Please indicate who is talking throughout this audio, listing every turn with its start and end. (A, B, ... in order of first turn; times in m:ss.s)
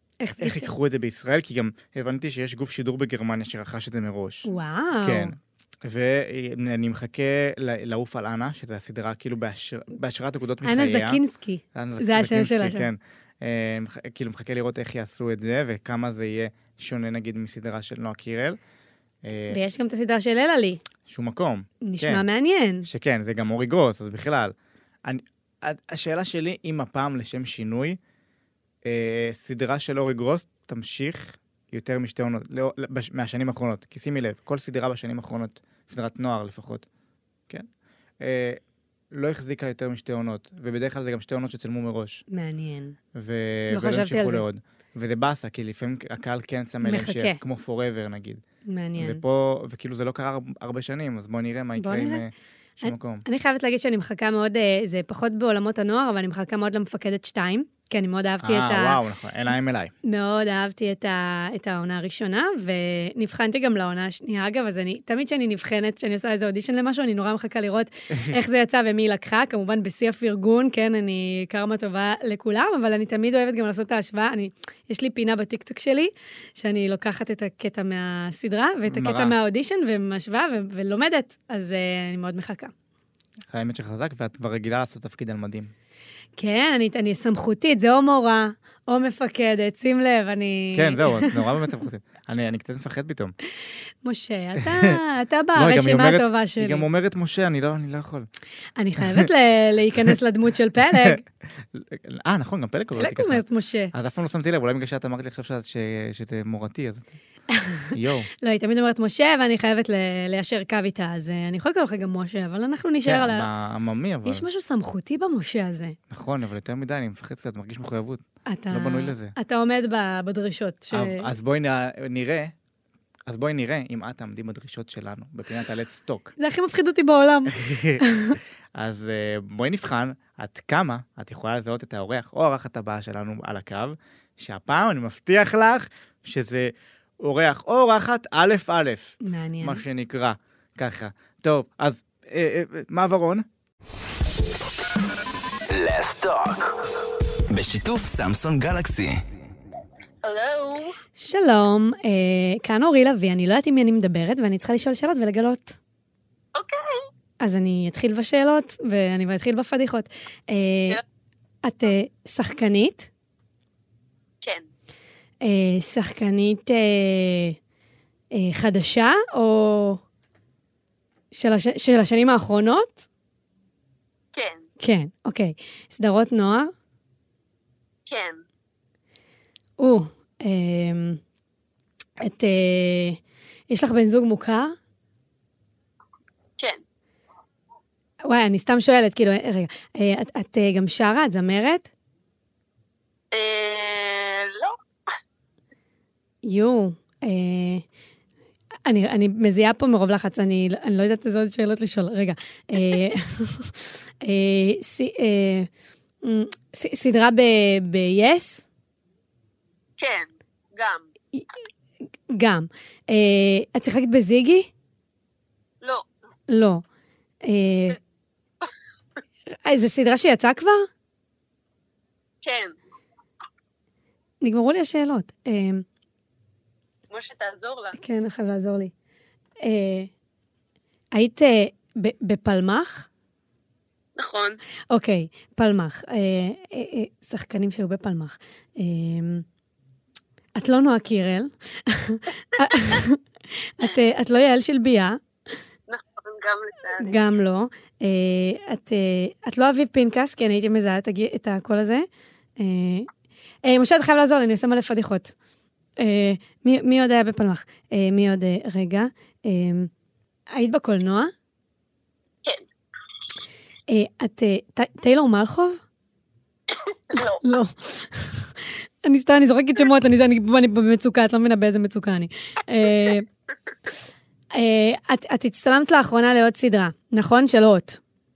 0:00.2-0:00.7 A
0:00.4-0:04.5 B
0:04.4-0:05.3 A
0:05.0-0:11.2 B
0:10.6-0:12.9 A
0:11.7-0:18.6 B
0:19.2-0:19.6 B
0:19.5-0:20.8 A
0:21.0-0:22.2 B
0:21.8-0:22.9 A
0:22.8-0:24.5 B
0:25.0-0:28.0 B
0:28.8-0:36.9 B
0:38.2-0:38.6 B
0:39.1-0:42.2 B
0:42.3-0:43.0 A
0:43.1-0:48.4 B
0:43.7-0:44.4 A
0:46.8-0:47.4 A
0:48.7-0:49.2 A
0:49.0-0:53.2 B
0:51.8-0:52.2 A
0:52.8-0:59.0 A
0:58.4-0:59.9 B
1:00.0-1:22.7 A
1:18.9-1:19.4 B
1:23.5-1:25.7 B
1:26.4-1:31.7 A
1:30.7-1:33.3 B
1:33.6-1:36.8 A
1:34.6-1:35.0 B
1:35.5-1:38.3 B
1:38.8-1:41.2 A
1:39.0-1:39.2 B
1:40.9-1:47.2 B
1:43.0-1:43.9 A
1:47.5-1:53.5 A
1:47.9-1:48.3 B
1:53.0-1:54.4 B
1:54.2-1:56.0 A
1:56.1-1:59.3 B
1:58.4-2:01.3 A
2:00.9-2:02.5 B
2:03.3-2:06.3 B
2:06.4-2:08.4 A
2:07.5-2:08.0 B
2:08.8-2:23.4 B
2:19.2-2:19.8 A
2:25.7-2:29.3 C
2:30.2-2:30.9 D
2:31.2-2:35.8 A
2:36.5-2:37.0 D
2:37.4-2:41.0 A
2:41.6-2:43.1 A
2:45.4-2:47.6 A
2:48.3-2:50.0 A
2:51.3-2:53.0 A
2:54.3-2:54.6 D
2:54.8-2:56.7 A
2:58.1-2:58.4 D
2:59.8-3:01.2 A
3:02.2-3:04.8 A
3:08.2-3:11.9 A
3:13.3-3:14.8 D
3:16.4-3:17.8 A
3:18.8-3:25.7 A
3:26.2-3:28.7 A
3:30.0-3:31.0 D
3:32.3-3:34.7 A
3:36.5-3:36.8 A
3:37.4-3:38.0 A
3:39.5-3:40.9 A
3:42.4-3:42.7 D
3:44.4-3:45.8 A
3:47.1-3:48.0 D
3:47.9-3:48.9 A
3:49.6-3:50.1 A
3:51.1-3:53.1 A
3:54.2-3:54.6 D
3:54.9-3:59.4 A
4:00.6-4:05.2 A
4:05.9-4:07.4 D
4:07.0-4:13.1 A
4:13.6-4:15.3 A
4:16.0-4:19.9 A
4:20.5-4:21.3 A
4:23.9-4:25.8 A
4:26.8-4:27.4 D
4:27.1-4:33.3 A
4:34.5-4:38.0 A